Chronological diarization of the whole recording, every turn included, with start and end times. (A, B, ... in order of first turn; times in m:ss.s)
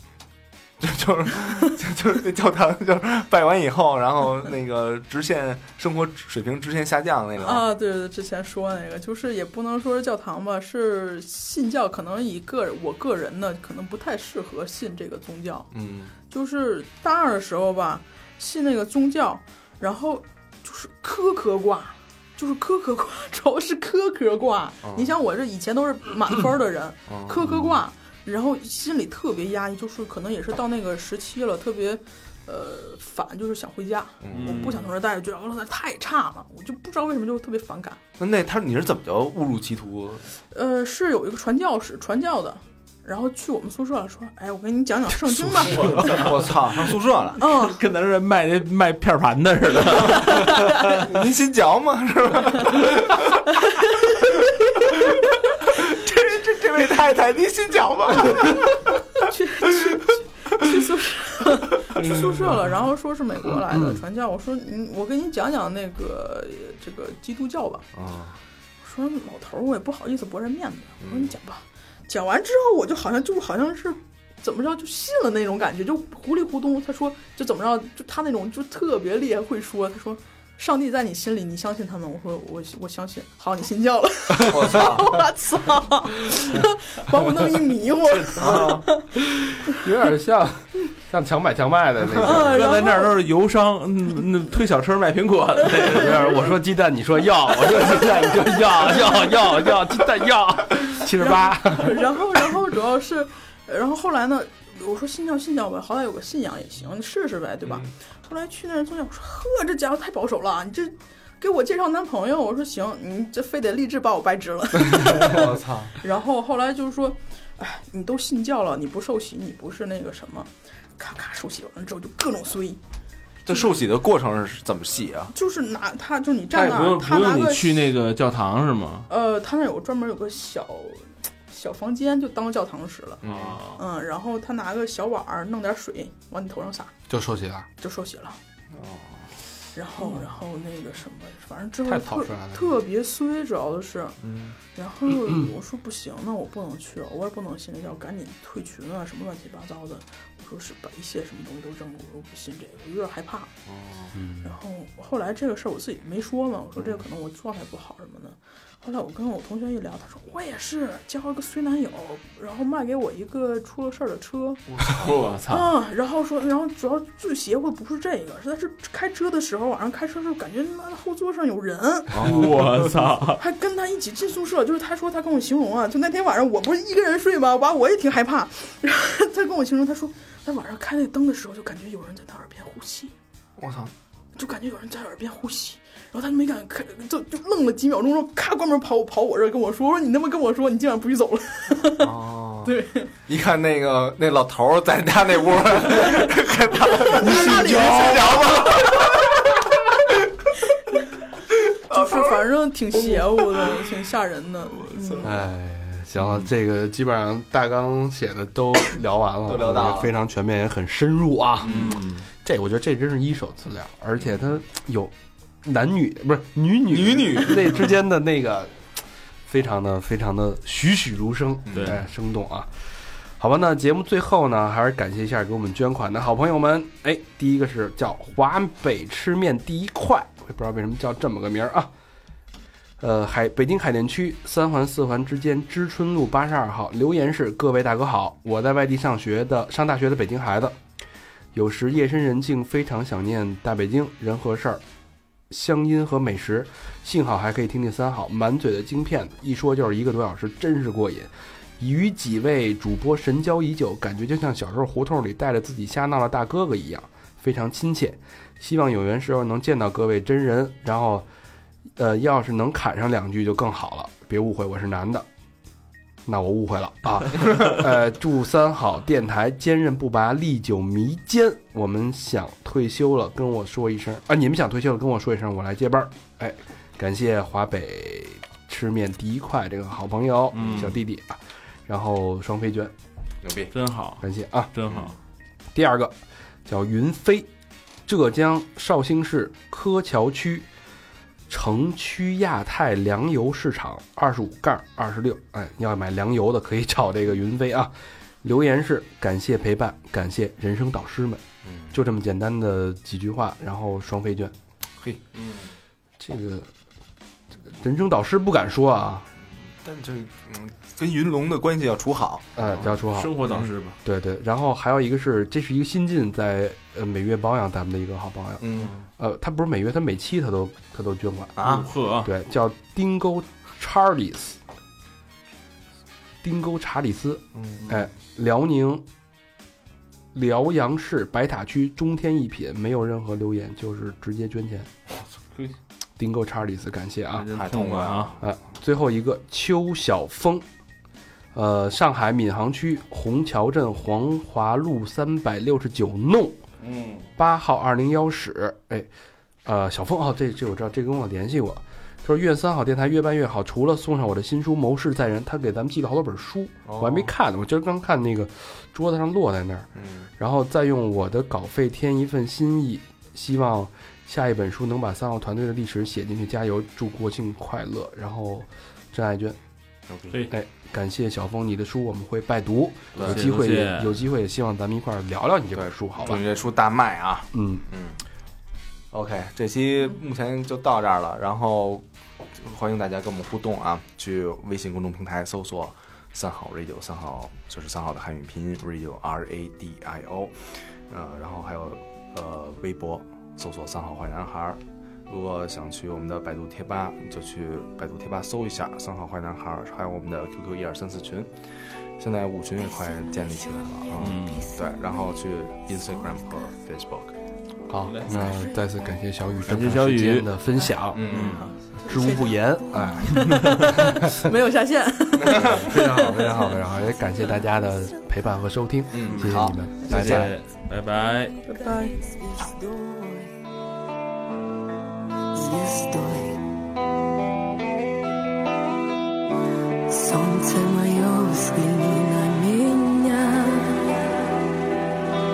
0:00.8-0:07.7 A
0:07.4-0:15.7 B
0:15.7-0:16.1 A
0:16.3-0:38.0 B
0:24.8-0:25.1 A
0:27.1-0:27.6 A
0:34.2-0:34.8 A
0:34.3-0:34.9 C
0:38.2-0:40.2 A
0:40.5-0:46.0 B
0:45.3-0:46.2 D
0:45.8-0:47.4 A
0:47.4-0:47.8 B
0:47.4-0:50.9 C
0:50.4-0:50.7 B
0:51.0-0:53.5 A
0:53.5-0:55.0 B
0:54.1-0:59.2 A
0:59.2-1:07.9 B
0:59.7-1:00.0 A
1:03.7-1:04.0 D
1:07.9-1:08.4 A
1:08.8-1:29.1 B
1:11.0-1:11.4 A
1:24.4-1:25.2 A
1:28.4-1:28.8 A
1:29.3-1:32.7 D
1:32.2-1:33.1 B
1:32.3-1:36.4 C
1:35.8-1:42.5 D
1:41.2-2:02.8 B
1:54.9-1:56.0 A
2:03.4-2:05.3 A
2:05.3-2:07.8 B
2:06.5-2:09.1 C
2:09.1-2:13.2 B
2:13.2-2:13.6 A
2:13.2-2:13.8 C
2:13.7-2:16.9 B
2:17.1-2:17.7 D
2:17.8-2:18.4 B
2:18.7-2:19.3 A
2:19.8-2:24.2 B
2:21.9-2:22.8 D
2:24.2-2:24.6 A
2:24.7-2:33.5 B
2:33.7-2:34.2 A
2:34.1-2:34.6 D
2:34.4-2:44.6 B
2:44.7-2:45.1 A
2:44.9-2:45.7 C
2:45.5-2:52.4 B
2:52.1-2:52.8 A
2:52.2-2:53.4 C
2:53.4-3:03.1 B
3:03.6-3:03.9 A
3:04.4-3:12.1 B
3:12.0-3:12.7 A
3:12.6-3:13.1 B
3:13.3-3:19.9 A
3:17.0-3:18.8 B
3:17.2-3:18.3 C
3:21.9-3:22.4 A
3:21.9-3:25.4 B
3:23.0-3:23.8 A
3:24.8-3:25.4 A
3:25.2-3:35.1 D
3:29.4-3:30.1 A
3:31.6-3:32.0 A
3:31.7-3:32.3 C
3:35.6-3:38.7 D
3:36.9-3:37.9 A
3:39.5-3:42.7 D
3:41.7-3:42.0 A
3:41.7-3:42.0 C
3:43.4-3:51.9 D
3:53.0-4:00.8 D
4:01.5-4:04.8 D
4:05.5-4:21.3 D
4:22.0-4:25.3 D
4:26.3-4:42.9 D
4:40.5-4:41.0 C
4:40.6-4:41.0 A
4:43.4-4:43.7 A
4:43.7-4:45.1 C
4:44.2-4:44.7 D
4:44.9-4:45.1 A
4:45.7-4:47.5 D
4:48.0-4:50.7 D
4:51.5-5:04.5 D
5:01.6-5:02.0 A
5:05.4-5:05.7 C
5:06.2-5:06.7 D
5:07.6-5:09.3 D
5:09.8-5:12.9 A
5:12.6-5:13.5 D
5:12.7-5:14.0 C
5:14.0-5:21.6 D
5:18.6-5:19.0 A
5:21.6-5:21.9 A
5:21.6-5:22.3 C
5:22.2-5:24.6 D
5:26.4-5:29.0 D
5:27.6-5:27.9 A
5:30.3-5:34.9 D
5:35.5-5:35.8 C
5:36.2-5:37.5 D
5:37.3-5:38.4 C
5:37.5-5:38.4 A
5:38.4-5:40.6 D
5:41.5-5:46.6 D
5:46.8-5:47.3 C
5:47.4-5:49.1 D
5:49.6-6:09.6 D
5:56.9-5:57.3 A
6:00.0-6:00.3 A
6:10.1-6:10.4 A
6:10.5-6:16.4 D
6:13.1-6:13.5 A
6:13.2-6:14.2 C
6:15.8-6:18.2 A
6:17.5-6:17.8 D
6:19.1-6:41.5 A
6:42.2-6:47.3 A
6:44.2-6:44.7 C
6:44.4-6:44.7 E
6:47.9-6:51.3 D
6:48.0-6:48.5 C
6:48.4-6:48.7 B
6:49.6-6:50.5 C
6:50.8-6:56.8 B
6:51.1-6:51.7 A
6:51.2-6:51.6 C
6:52.1-6:54.5 D
6:53.4-6:53.8 C
6:55.4-6:56.0 A
6:55.5-7:00.5 D
6:59.1-7:00.5 A
6:59.3-6:59.5 C
7:00.1-7:01.6 C
7:01.6-7:02.2 B
7:01.8-7:03.6 E
7:05.5-7:06.6 E
7:10.1-7:14.2 E